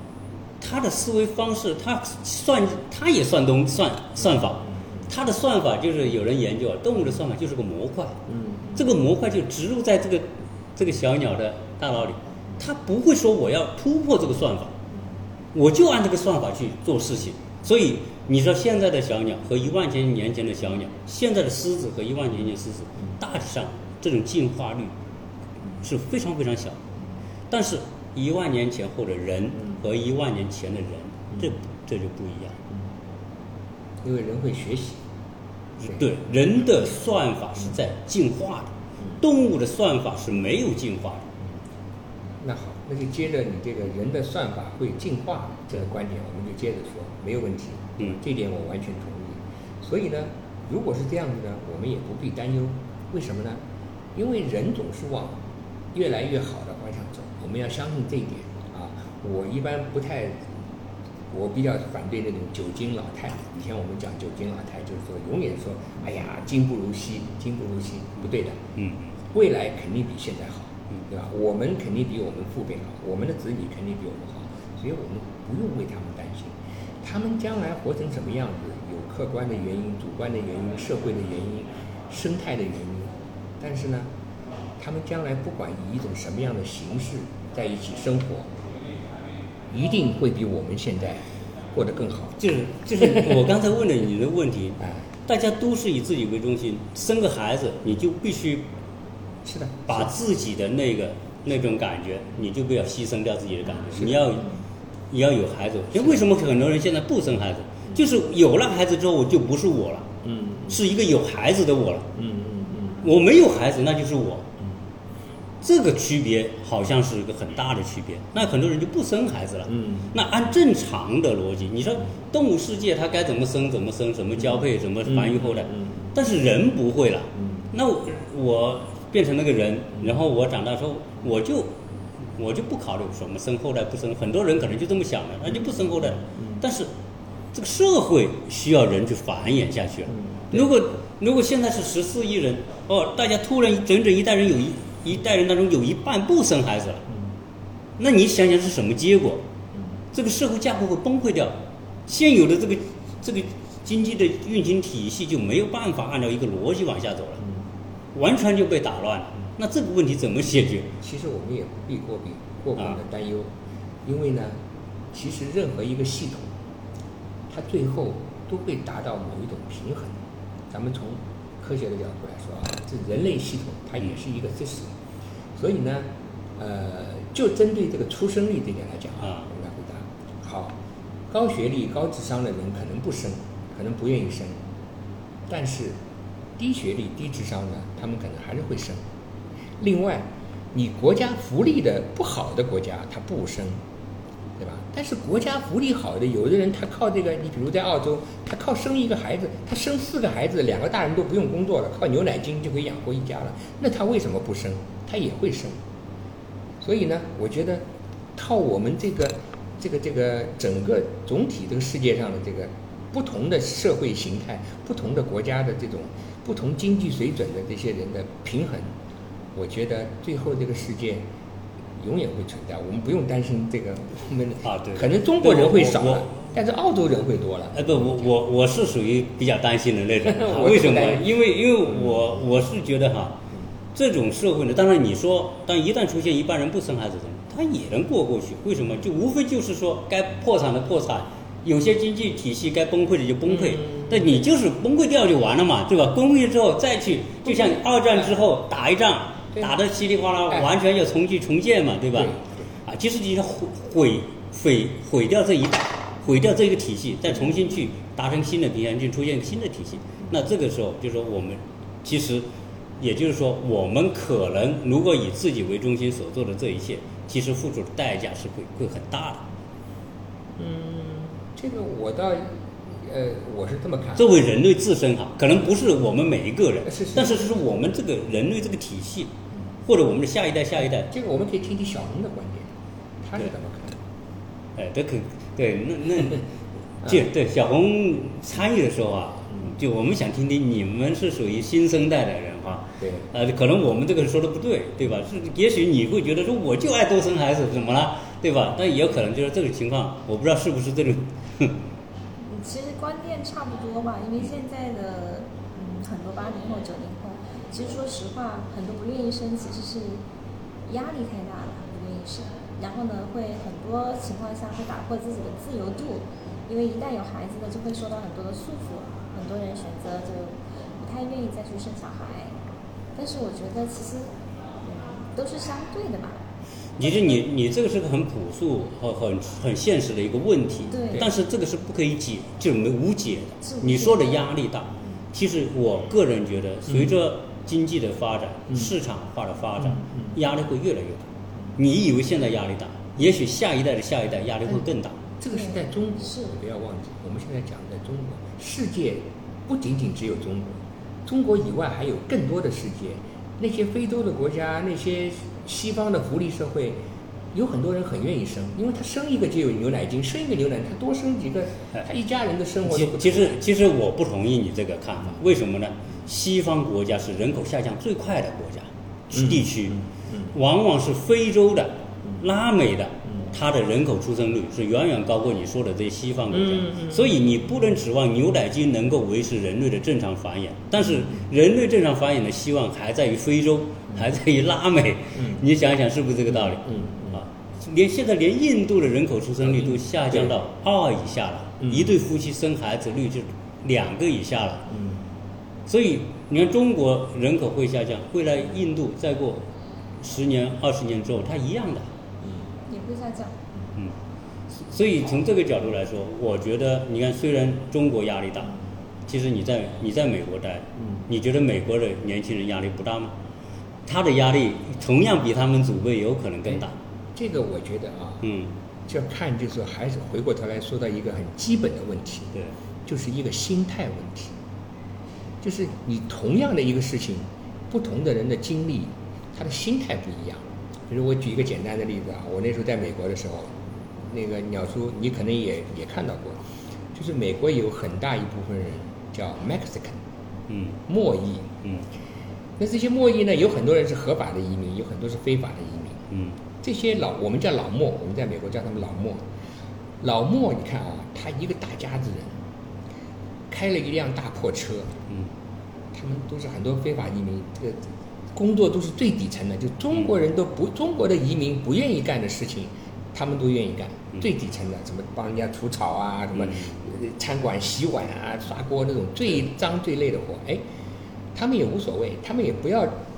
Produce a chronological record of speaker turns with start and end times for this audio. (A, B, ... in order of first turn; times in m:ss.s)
0:00.6-0:08.2 A
0:08.3-0:08.8 B
0:08.7-0:14.7 A
0:15.5-0:24.9 A
0:25.8-0:26.8 A
0:27.5-0:32.6 A
0:34.0-0:35.0 B
0:35.8-0:41.3 A
0:42.4-0:53.6 B
0:54.1-0:55.4 B
0:55.9-1:00.5 B
1:01.3-1:08.6 B
1:08.8-1:09.1 A
1:09.3-1:24.1 B
1:24.8-1:28.5 B
1:29.7-1:32.4 B
1:32.4-1:38.6 A
1:39.4-1:40.0 B
1:39.9-1:44.5 A
1:45.1-1:50.1 A
1:50.2-1:50.8 B
1:50.7-1:52.1 A
1:52.2-1:53.0 B
1:53.0-1:54.5 A
1:55.6-2:11.7 A
1:59.8-2:00.1 B
2:05.1-2:05.9 B
2:12.4-2:16.9 A
2:17.5-2:27.0 A
2:28.0-2:29.4 A
2:30.1-2:37.4 A
2:38.1-2:40.9 A
2:41.0-2:43.5 B
2:44.0-2:44.6 B
2:45.1-2:46.5 B
2:47.5-2:54.9 B
2:55.5-3:00.8 B
2:59.2-2:59.5 A
3:01.3-3:04.6 B
3:05.5-3:06.0 B
3:06.6-3:09.0 B
3:09.8-3:13.8 B
3:14.6-3:25.8 B
3:26.8-3:38.9 B
3:39.5-3:41.2 B
3:42.0-3:48.1 B
3:44.6-3:46.4 A
3:47.7-3:53.4 A
3:50.2-3:51.3 B
3:53.9-4:22.4 A
4:03.7-4:04.1 B
4:07.5-4:07.7 B
4:12.1-4:12.6 B
4:23.0-4:29.4 A
4:30.6-4:34.3 B
4:34.2-4:39.3 A
4:36.9-4:37.4 B
4:39.8-4:41.1 A
4:41.1-4:42.7 B
4:43.2-4:44.0 B
4:44.8-4:46.4 A
4:47.0-5:01.8 A
4:53.0-4:53.2 B
5:02.5-5:10.2 C
5:10.9-5:22.5 C
5:23.2-5:24.3 C
5:24.8-5:26.4 C
5:27.0-5:45.2 A
5:30.9-5:31.3 C
5:33.6-5:34.4 C
5:45.4-5:57.0 B
5:45.5-5:46.5 C
5:57.5-6:03.6 B
6:02.8-6:34.9 A
6:09.4-6:10.0 B
6:16.7-6:17.1 B
6:25.4-6:25.6 B
6:26.6-6:27.4 B
6:34.9-6:35.2 B
6:35.9-6:39.6 A
6:40.2-6:42.1 A
6:42.9-6:43.5 C
6:44.8-6:48.8 A
6:49.3-6:53.3 A
6:54.1-6:56.9 A
6:57.3-6:58.4 B
6:58.4-6:58.7 A
6:59.1-7:02.5 B
7:03.0-7:04.5 B
7:05.6-7:16.6 B
7:17.1-7:20.2 B
7:20.7-7:21.0 A
7:21.1-7:21.7 B
7:22.8-7:26.2 B
7:26.3-7:26.6 A
7:26.8-7:29.4 B
7:30.2-7:32.6 B
7:33.7-7:35.1 B
7:36.1-7:50.8 B
7:46.6-7:46.9 A
7:51.5-7:53.1 B